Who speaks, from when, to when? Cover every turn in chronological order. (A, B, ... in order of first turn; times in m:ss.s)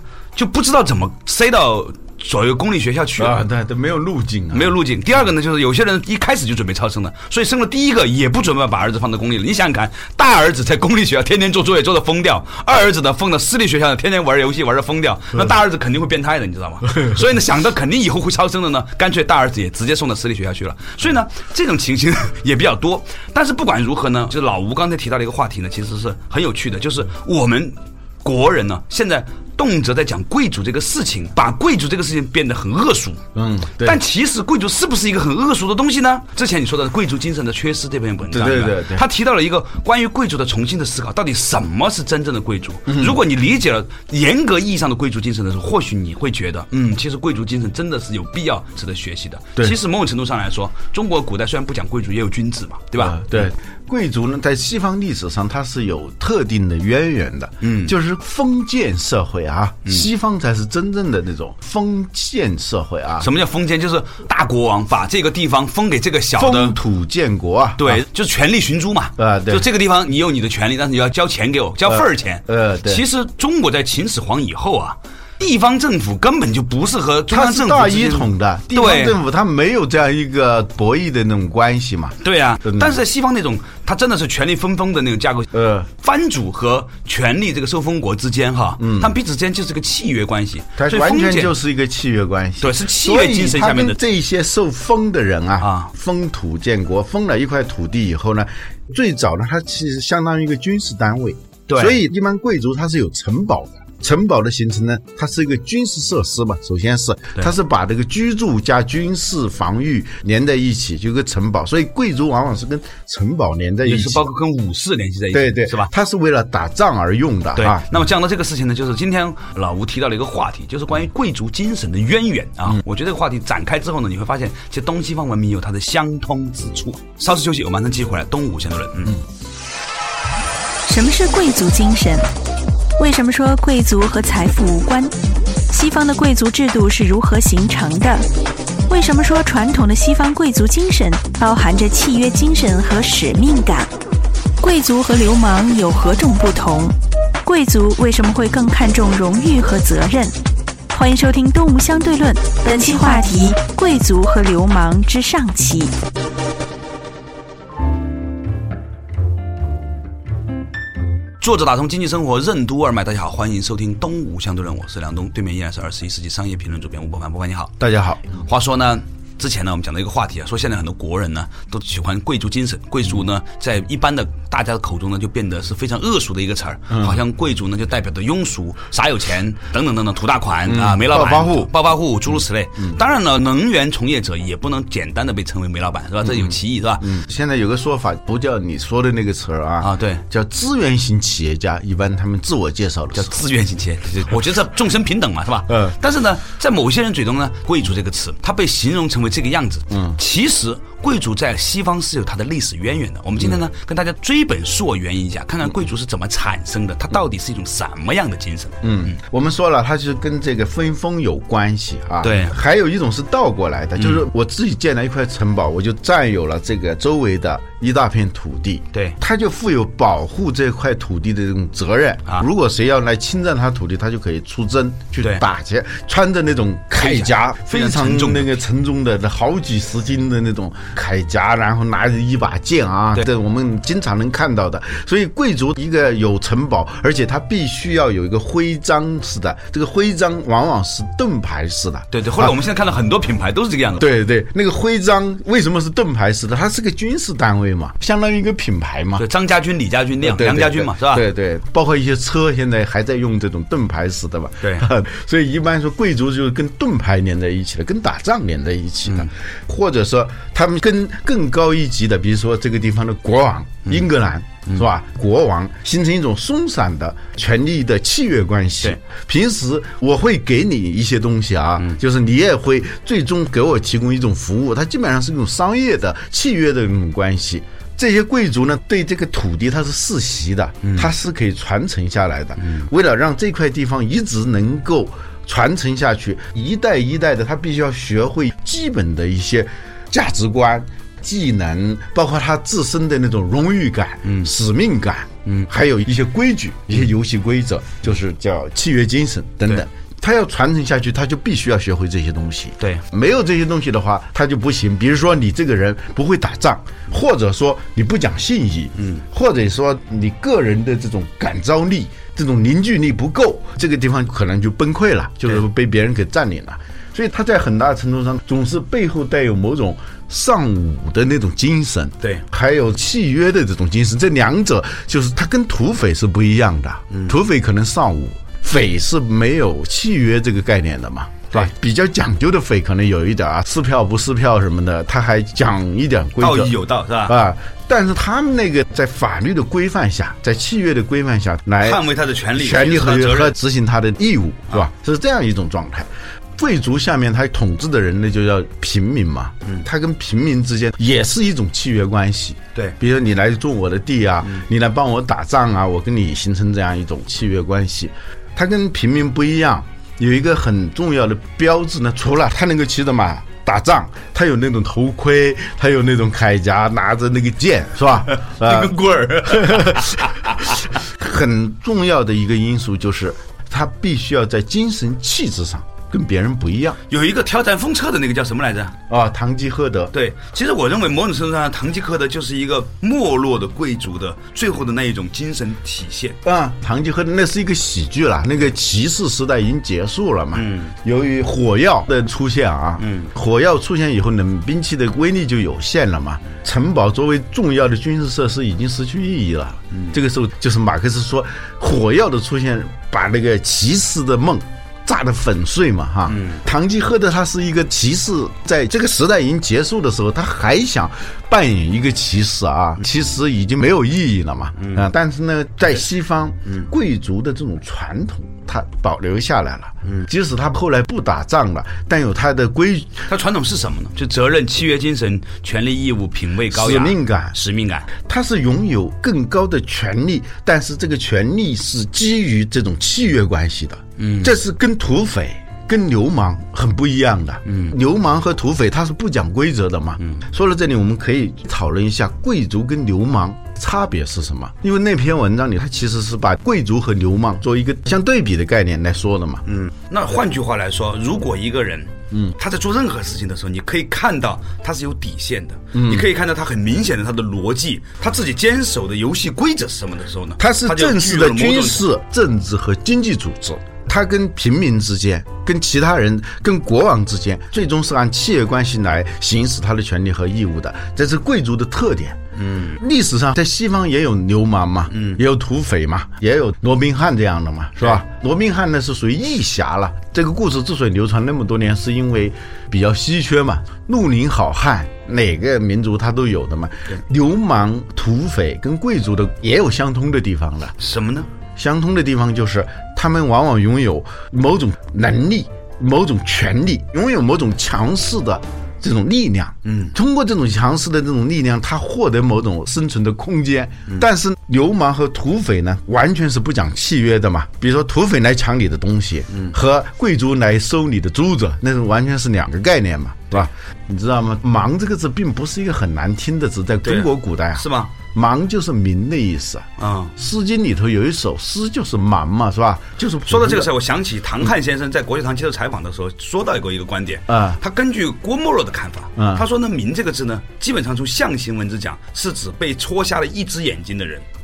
0:00.4-0:03.4 A
0:03.2-0:04.8 B
0:04.5-0:33.2 A
0:33.4-0:34.0 B
0:33.8-0:53.3 A
0:38.3-0:39.0 B
0:42.9-0:43.2 B
0:53.0-1:03.3 B
0:57.6-0:57.9 A
1:03.2-1:06.8 A
1:06.4-1:08.0 B
1:07.8-1:19.2 A
1:09.2-1:09.7 B
1:11.9-1:13.0 B
1:17.3-1:23.0 B
1:22.2-1:31.5 A
1:25.5-1:25.9 B
1:28.8-1:29.2 B
1:30.8-1:54.2 B
1:32.6-1:34.0 A
1:35.6-1:35.9 A
1:41.7-1:42.0 A
1:53.8-1:55.9 A
1:55.3-1:57.9 B
1:57.6-2:09.2 A
2:10.9-2:12.3 C
2:13.0-2:15.1 C
2:15.7-2:18.3 C
2:18.9-2:23.9 C
2:24.6-2:30.3 C
2:30.9-2:36.0 C
2:41.4-2:47.8 A
2:47.8-2:48.3 B
2:48.4-3:07.1 A
2:56.9-2:57.2 B
3:00.7-3:01.7 B
3:02.3-3:03.0 B
3:06.2-3:13.3 B
3:09.8-3:10.2 A
3:13.2-3:29.1 A
3:15.7-3:16.0 B
3:19.9-3:20.2 B
3:28.8-4:02.6 B
3:32.2-3:32.6 A
3:34.0-3:34.2 A
3:47.0-3:48.6 A
4:02.1-4:04.1 A
4:04.0-4:09.3 B
4:09.2-4:11.3 A
4:10.2-5:36.7 B
4:14.6-4:14.9 A
4:40.8-4:41.1 A
4:54.2-4:54.5 A
5:27.1-5:27.4 A
5:36.4-5:37.4 A
5:37.3-5:42.0 B
5:41.8-5:43.6 A
5:42.6-6:17.0 B
6:08.3-6:10.7 A
6:17.1-6:19.0 A
6:19.1-6:20.1 B
6:20.1-6:26.4 A
6:26.4-7:03.3 B
6:30.5-6:30.9 A
6:33.0-6:33.3 A
6:46.3-6:46.6 A
6:54.8-6:55.1 A
7:03.3-7:08.1 A
7:06.7-7:07.6 B
7:08.2-7:29.6 B
7:14.2-7:14.5 A
7:17.7-7:18.0 A
7:29.7-7:42.0 A
7:35.9-7:36.3 B
7:40.6-7:52.4 B
7:52.6-7:53.0 A
7:53.0-8:11.0 B
7:55.1-7:55.4 A
8:11.0-8:11.5 A
8:11.8-8:43.9 B
8:19.8-8:20.2 A
8:37.0-8:38.1 A
8:40.0-8:40.3 A
8:43.5-8:54.5 A
8:47.5-8:47.8 B
8:49.4-8:49.7 B